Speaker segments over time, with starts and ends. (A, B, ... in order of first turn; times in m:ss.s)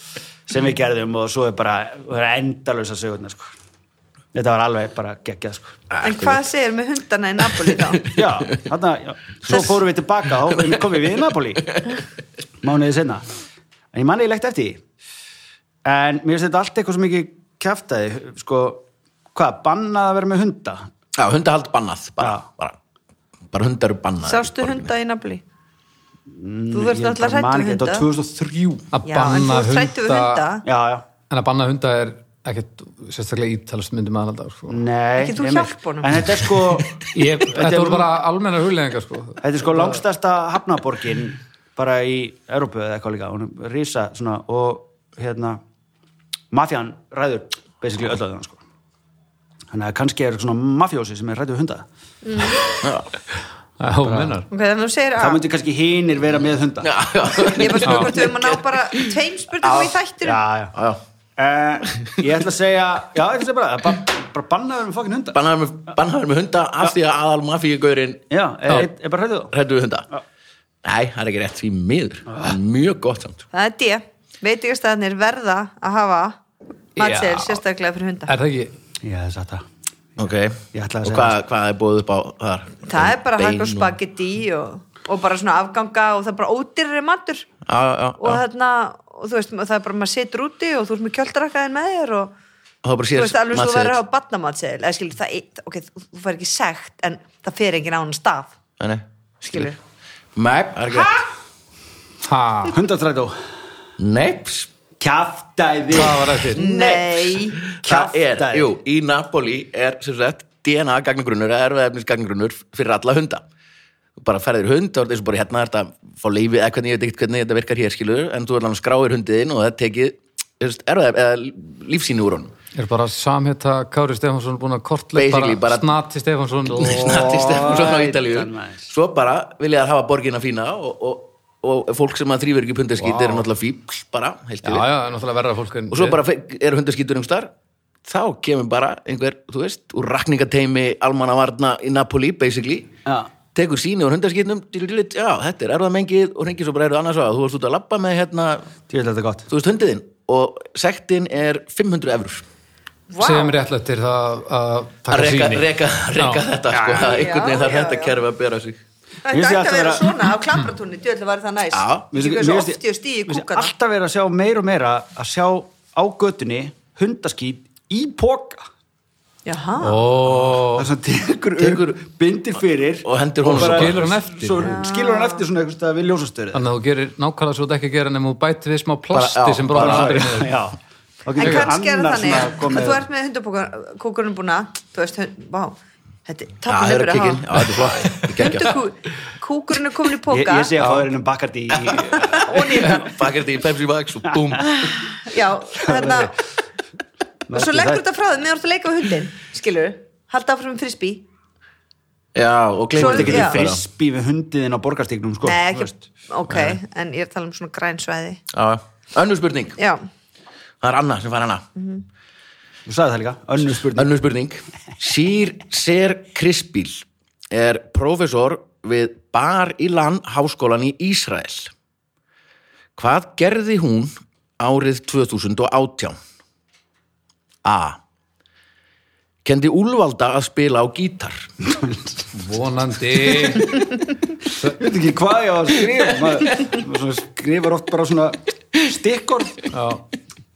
0:00.5-0:03.5 A
0:04.3-0:05.8 A
0:05.9-0:06.4 B
0:06.0-0:08.0 C
0:08.1-0:11.7 A
0:12.6-0:13.2 A
0:13.9-0:14.8 A
0:15.8-0:20.9 A
0:21.1-0:22.8 B
0:22.2-0:22.4 A
0:23.5-0:24.9 B
0:24.2-0:25.4 C
0:26.3-0:28.9 A
0:26.7-0:28.0 C
0:28.9-0:30.4 D
0:29.0-0:30.6 C
0:30.6-0:31.1 A
0:31.3-0:34.8 D
0:34.7-0:38.1 A
0:35.2-0:36.2 C
0:37.0-0:40.0 D
0:39.4-0:45.6 A
0:46.5-0:48.6 A
0:49.7-0:51.8 A
0:52.2-0:52.6 C
0:52.7-0:53.1 B
0:53.8-0:54.5 D
0:54.0-0:54.4 A
0:54.5-0:55.4 C
0:55.2-0:57.0 A
0:56.8-0:59.1 B
0:57.4-1:00.4 C
0:57.8-0:58.1 D
0:59.6-1:00.0 B
1:00.2-1:00.7 A
1:00.7-1:01.0 B
1:01.4-1:05.4 A
1:05.3-1:08.2 B
1:08.3-1:09.5 A
1:09.5-1:10.1 B
1:10.8-1:13.4 B
1:13.5-1:16.4 C
1:17.0-1:18.3 C
1:17.0-1:17.6 D
1:18.3-1:18.7 D
1:19.0-1:19.6 A
1:20.2-1:24.0 B
1:20.7-1:21.4 A
1:22.8-1:27.5 C
1:27.6-1:28.4 B
1:28.2-1:32.3 C
1:32.8-1:34.0 B
1:33.1-1:38.5 C
1:38.8-1:39.7 B
1:39.4-1:39.8 C
1:40.4-1:41.2 B
1:42.2-1:42.8 D
1:42.7-1:43.4 A
1:44.0-1:44.7 B
1:45.0-1:46.5 A
1:45.9-1:46.6 D
1:46.5-1:47.6 C
1:46.6-1:53.4 B
1:47.8-1:48.7 A
1:54.2-2:02.5 B
2:02.7-2:07.4 D
2:05.1-2:05.9 B
2:06.7-2:14.9 B
2:06.8-2:08.9 A
2:13.0-2:13.5 D
2:14.6-2:16.2 D
2:15.9-2:17.5 B
2:18.0-2:22.9 B
2:23.0-2:23.3 A
2:23.5-2:28.7 B
2:28.9-2:29.5 A
2:29.5-2:32.4 B
2:33.1-2:33.6 C
2:33.2-2:36.4 D
2:35.1-2:38.8 B
2:36.7-2:37.2 A
2:37.0-2:38.1 C
2:39.2-2:43.7 C
2:39.3-2:40.1 A
2:41.7-2:42.0 B
2:42.1-2:48.6 A
2:49.4-2:50.0 C
2:49.8-2:50.9 D
2:50.6-2:56.7 A
2:51.6-2:52.0 B
2:53.0-2:54.0 B
2:53.5-2:54.8 D
2:54.6-2:55.4 C
2:56.5-3:00.5 D
2:59.1-3:00.4 B
2:59.7-3:03.0 A
3:01.4-3:10.7 C
3:01.4-3:01.7 D
3:06.7-3:08.8 B
3:10.3-3:13.0 A
3:10.8-3:11.1 D
3:11.8-3:14.9 B
3:12.3-3:13.1 C
3:14.6-3:16.3 C
3:15.8-3:16.3 A
3:17.5-3:18.0 A
3:17.5-3:21.2 C
3:22.3-3:23.8 B
3:22.9-3:26.0 A
3:23.0-3:23.6 C
3:25.4-3:28.4 C
3:26.5-3:26.8 B
3:28.5-3:29.8 B
3:29.8-3:30.0 C
3:30.8-3:31.6 B
3:31.8-3:32.0 C
3:32.8-3:34.2 A
3:33.8-3:41.7 B
3:43.0-3:46.2 B
3:47.6-3:48.0 B
3:49.4-3:51.6 B
3:52.3-3:54.0 D
3:54.7-3:59.7 A
3:59.7-4:00.0 D